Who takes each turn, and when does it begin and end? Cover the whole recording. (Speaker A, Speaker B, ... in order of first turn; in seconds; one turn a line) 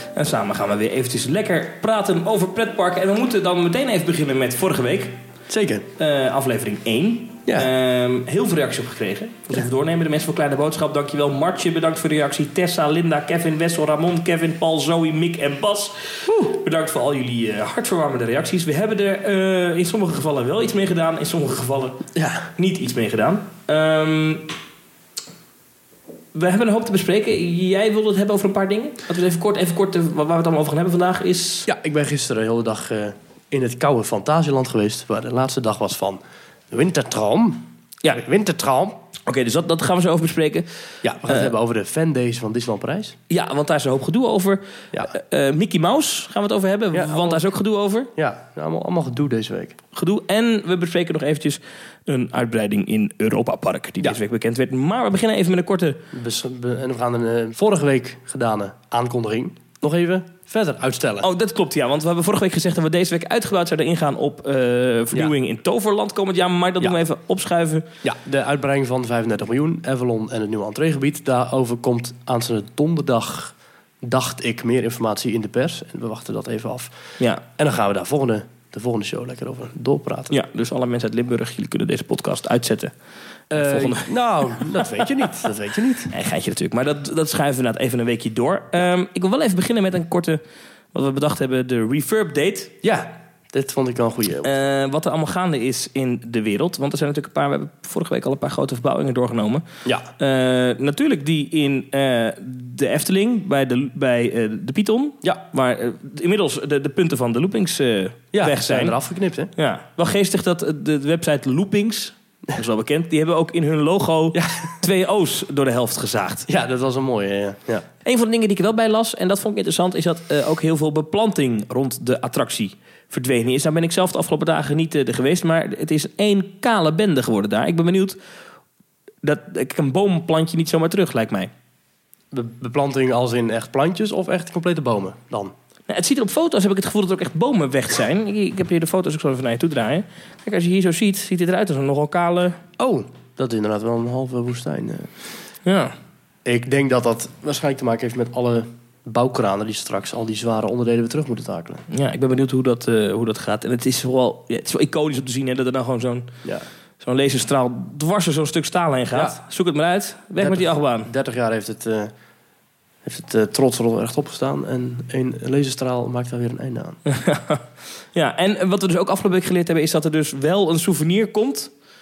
Speaker A: 0.1-5.1
Speaker B: 5.5-5.9
Speaker A: 6.0-22.0
Speaker B: 16.3-16.5
Speaker B: 22.1-22.5
Speaker A: 22.6-24.6
Speaker A: 26.3-31.7
Speaker B: 31.7-39.0
Speaker A: 39.3-40.7
Speaker B: 41.0-43.2
Speaker A: 43.3-48.1
Speaker B: 46.9-47.5
Speaker B: 48.2-49.8
Speaker A: 49.9-56.0
Speaker B: 56.1-61.3
Speaker A: 61.2-67.9
Speaker B: 68.0-76.9
Speaker B: 77.6-80.4
Speaker A: 80.3-82.9
Speaker B: 83.5-86.1
Speaker A: 83.6-85.1
Speaker A: 86.1-90.4
Speaker A: 90.9-92.7
Speaker B: 92.8-94.5
Speaker A: 94.4-99.7
Speaker B: 99.8-100.1
Speaker A: 100.2-109.0
Speaker B: 108.3-109.5
Speaker A: 109.6-116.5
Speaker B: 114.3-114.8
Speaker B: 116.5-117.9
Speaker A: 118.0-128.2
Speaker A: 129.2-131.5
Speaker B: 132.3-135.5
Speaker A: 135.9-142.6
Speaker B: 142.8-145.1
Speaker A: 145.7-145.9
Speaker B: 146.5-151.9
Speaker A: 151.9-156.3
Speaker A: 157.0-161.1
Speaker B: 159.1-159.4
Speaker B: 160.4-162.1
Speaker B: 163.1-167.0
Speaker A: 167.1-167.6
Speaker A: 168.1-171.7